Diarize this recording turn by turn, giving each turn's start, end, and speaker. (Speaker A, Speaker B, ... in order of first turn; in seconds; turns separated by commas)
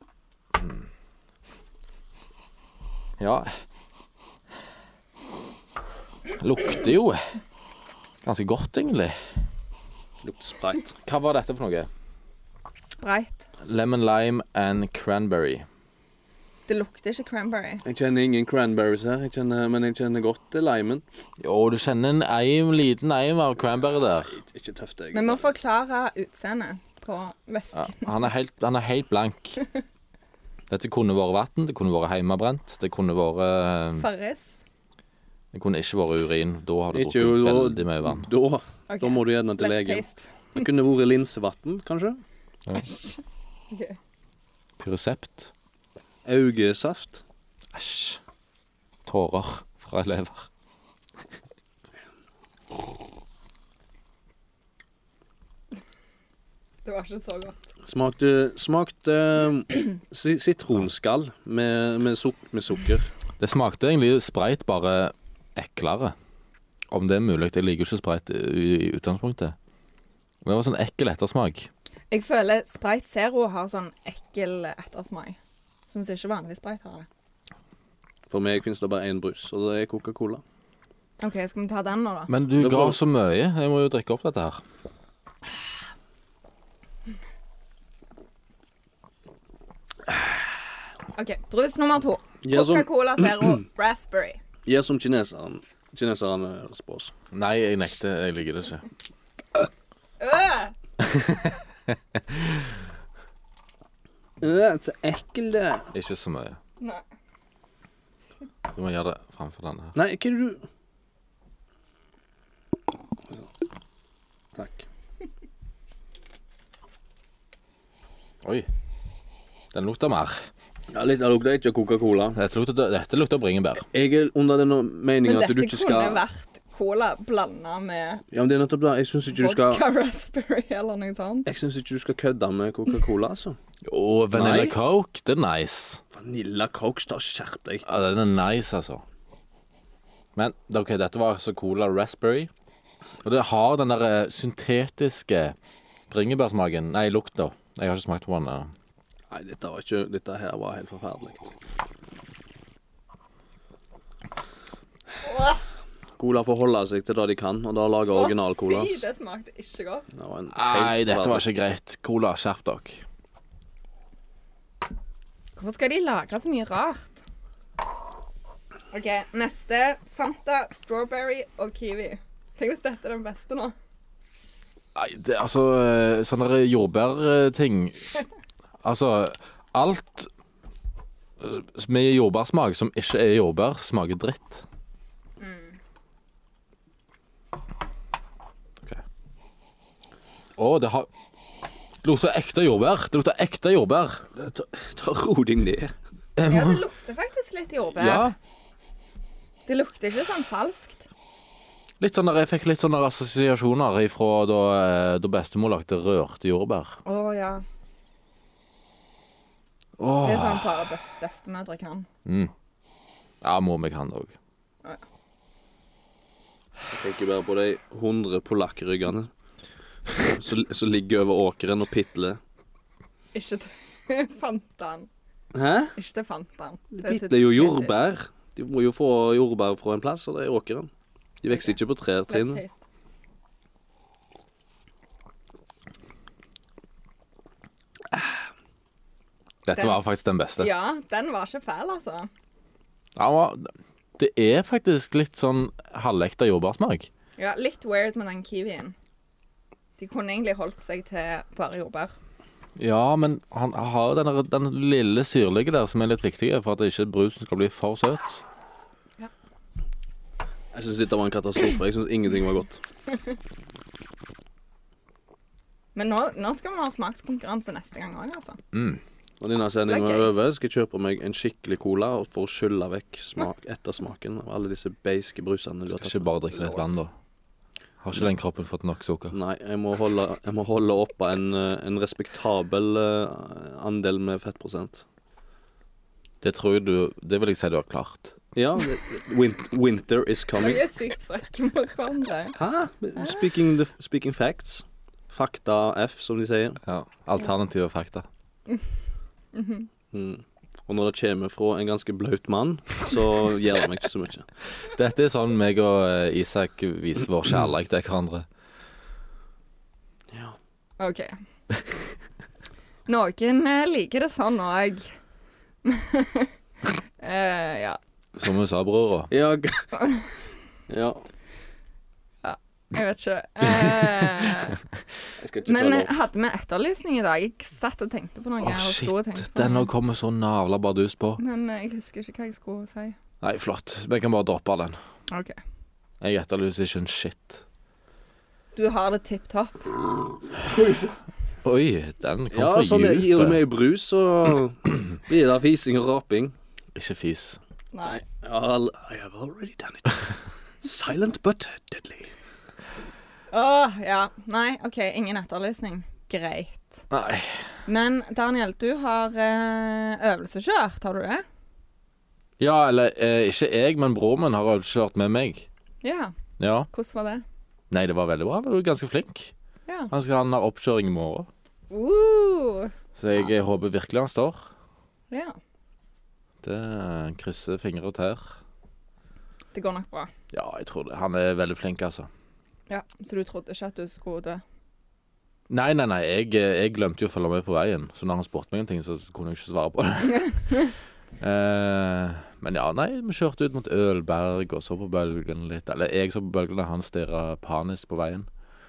Speaker A: 3.2-3.6, Speaker A: 6.3-7.4, Speaker A: 8.2-9.2, Speaker B: 10.2-11.0, Speaker A: 11.0-11.9, Speaker C: 13.0-13.5, Speaker A: 13.6-15.7, Speaker C: 16.7-17.8, Speaker B: 17.9-21.0, Speaker A: 21.4-24.4, Speaker B: 24.3-25.5, Speaker C: 25.1-28.1, Speaker A: 27.7-29.6, Speaker A: 30.7-34.1, Speaker C: 34.0-34.5, Speaker A: 35.5-38.3, Speaker B: 36.9-42.2, Speaker C: 38.9-40.7, Speaker A: 42.7-43.0, Speaker C: 42.9-43.2, Speaker C: 43.7-44.0, Speaker A: 44.8-45.5, Speaker B: 46.2-47.2, Speaker A: 47.7-48.2, Speaker A: 49.1-50.5, Speaker C: 56.9-57.6, Speaker B: 57.9-63.1, Speaker A: 63.4-66.2, Speaker A: 66.9-69.5, Speaker A: 70.4-71.7, Speaker C: 72.1-75.4, Speaker C: 75.9-77.1, Speaker B: 78.3-80.4, Speaker C: 81.2-82.3, Speaker A: 82.3-84.6, Speaker B: 82.6-83.0, Speaker C: 91.2-94.4, Speaker B: 92.4-93.6, Speaker B: 94.7-97.1, Speaker A: 97.3-98.9, Speaker C: 100.2-100.7, Speaker A: 101.0-101.6, Speaker A: 102.2-102.8, Speaker B: 104.4-105.9, Speaker A: 105.9-106.6, Speaker A: 108.7-110.0, Speaker B: 110.0-110.7, Speaker B: 114.5-114.9, Speaker A: 119.7-120.5, Speaker B: 120.9-122.4, Speaker A: 122.4-123.9, Speaker B: 123.9-126.2, Speaker C: 125.2-128.2, Speaker B: 128.3-129.8, Speaker C: 129.3-131.5, Speaker B: 131.4-133.6, Speaker A: 133.8-136.0, Speaker B: 134.3-134.8, Speaker B: 136.1-137.8, Speaker A: 137.9-139.0, Speaker A: 140.4-142.5, Speaker A: 143.2-145.6, Speaker A: 146.1-148.7, Speaker B: 149.3-151.5, Speaker C: 155.2-155.6, Speaker B: 156.2-159.0, Speaker C: 158.1-160.1, Speaker B: 160.1-161.4, Speaker A: 160.5-163.0, Speaker C: 165.6-167.2, Speaker C: 168.9-173.8, Speaker A: 174.9-178.2, Speaker A: 178.8-180.3, Speaker A: 181.4-184.7, Speaker C: 185.4-185.8, Speaker A: 190.6-191.1, Speaker A: 192.0-194.3, Speaker B: 194.3-196.0, Speaker A: 196.4-196.8, Speaker C: 196.5-198.3, Speaker A: 198.0-198.3, Speaker C: 199.7-201.1, Speaker A: 202.0-207.0, Speaker C: 207.1-207.6, Speaker A: 210.0-210.9, Speaker C: 210.2-212.1, Speaker A: 212.3-212.5, Speaker A: 213.4-214.3, Speaker B: 216.9-219.3, Speaker B: 220.1-222.4, Speaker C: 223.3-225.1, Speaker B: 225.5-225.9, Speaker C: 226.0-228.0, Speaker B: 226.9-230.9, Speaker B: 231.4-232.6, Speaker C: 232.3-232.8, Speaker A: 239.7-240.7, Speaker C: 239.8-240.0, Speaker C: 240.6-242.3, Speaker A: 243.2-247.1, Speaker C: 247.4-248.9, Speaker C: 250.0-252.2, Speaker A: 252.8-258.4, Speaker B: 260.7-262.8, Speaker C: 265.9-268.6, Speaker A: 268.7-269.0, Speaker B: 269.4-276.3, Speaker C: 269.9-270.3, Speaker A: 276.0-277.1, Speaker A: 278.0-279.4, Speaker B: 279.3-285.1, Speaker A: 286.4-288.4, Speaker B: 288.6-290.9, Speaker C: 290.6-292.6, Speaker B: 292.6-296.8, Speaker A: 296.8-298.3, Speaker C: 299.5-299.9, Speaker B: 300.1-304.5, Speaker A: 304.8-308.5, Speaker B: 310.3-310.6, Speaker C: 311.0-311.3, Speaker C: 313.1-315.1, Speaker C: 315.8-316.5, Speaker C: 317.2-318.0, Speaker A: 318.4-319.3, Speaker B: 319.3-320.1, Speaker B: 320.9-321.2, Speaker C: 322.4-324.8, Speaker B: 325.4-326.2, Speaker C: 325.6-329.9, Speaker A: 328.6-331.4, Speaker C: 331.4-333.2, Speaker A: 333.4-335.0, Speaker C: 335.3-335.6, Speaker A: 336.2-337.6, Speaker C: 338.8-340.0, Speaker B: 340.8-341.1, Speaker A: 341.6-343.6, Speaker B: 342.5-346.6, Speaker A: 346.9-347.6, Speaker C: 347.9-348.2, Speaker B: 348.1-352.3, Speaker C: 353.5-357.1, Speaker A: 357.1-357.8, Speaker C: 357.9-361.4, Speaker A: 362.6-365.7, Speaker C: 366.0-366.3, Speaker A: 366.6-366.9, Speaker C: 366.9-367.4, Speaker A: 367.9-369.5, Speaker A: 370.1-371.5, Speaker C: 371.9-372.9, Speaker A: 373.2-374.7, Speaker C: 375.3-375.6, Speaker A: 376.6-378.6, Speaker C: 379.7-380.3, Speaker A: 380.5-382.3, Speaker C: 382.9-384.6, Speaker A: 385.7-398.5